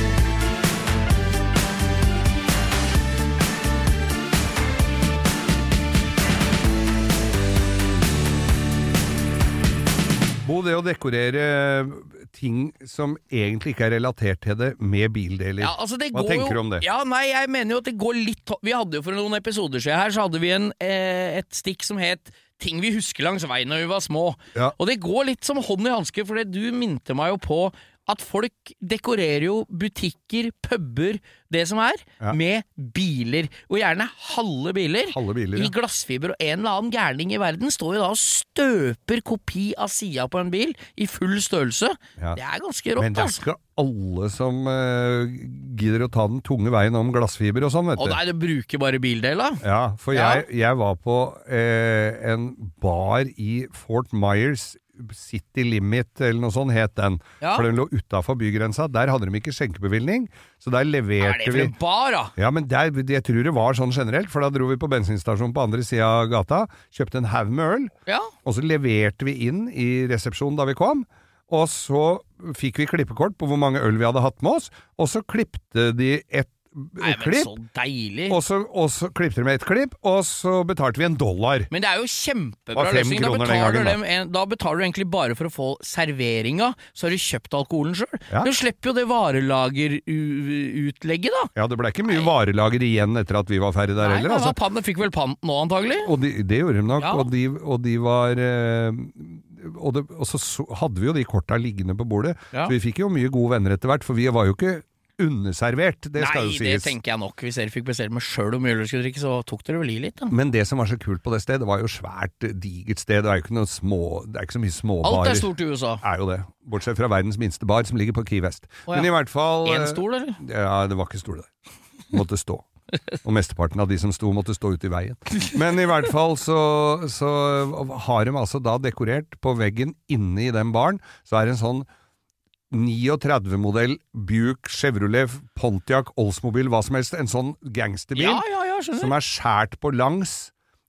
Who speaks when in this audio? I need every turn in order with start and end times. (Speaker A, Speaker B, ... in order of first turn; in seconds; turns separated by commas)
Speaker A: 10.4-16.9, Speaker B: 15.6-43.4, Speaker A: 35.1-35.7, Speaker A: 43.0-48.2, Speaker B: 48.0-50.5, Speaker A: 49.6-61.8, Speaker B: 57.4-57.7, Speaker B: 61.2-62.3, Speaker A: 62.4-67.9, Speaker B: 68.1-68.3, Speaker A: 68.5-77.5, Speaker B: 77.0-78.4, Speaker A: 78.3-81.7, Speaker B: 81.7-91.5, Speaker A: 82.8-84.0, Speaker A: 91.5-94.6, Speaker B: 92.0-92.3, Speaker B: 94.0-96.1, Speaker A: 96.0-106.9, Speaker B: 97.0-97.3, Speaker B: 106.2-110.4, Speaker A: 110.3-121.5, Speaker B: 115.0-116.0, Speaker B: 119.6-120.4, Speaker A: 122.1-122.7, Speaker A: 123.2-131.9, Speaker A: 132.7-138.4, Speaker B: 138.2-139.2, Speaker A: 139.0-140.5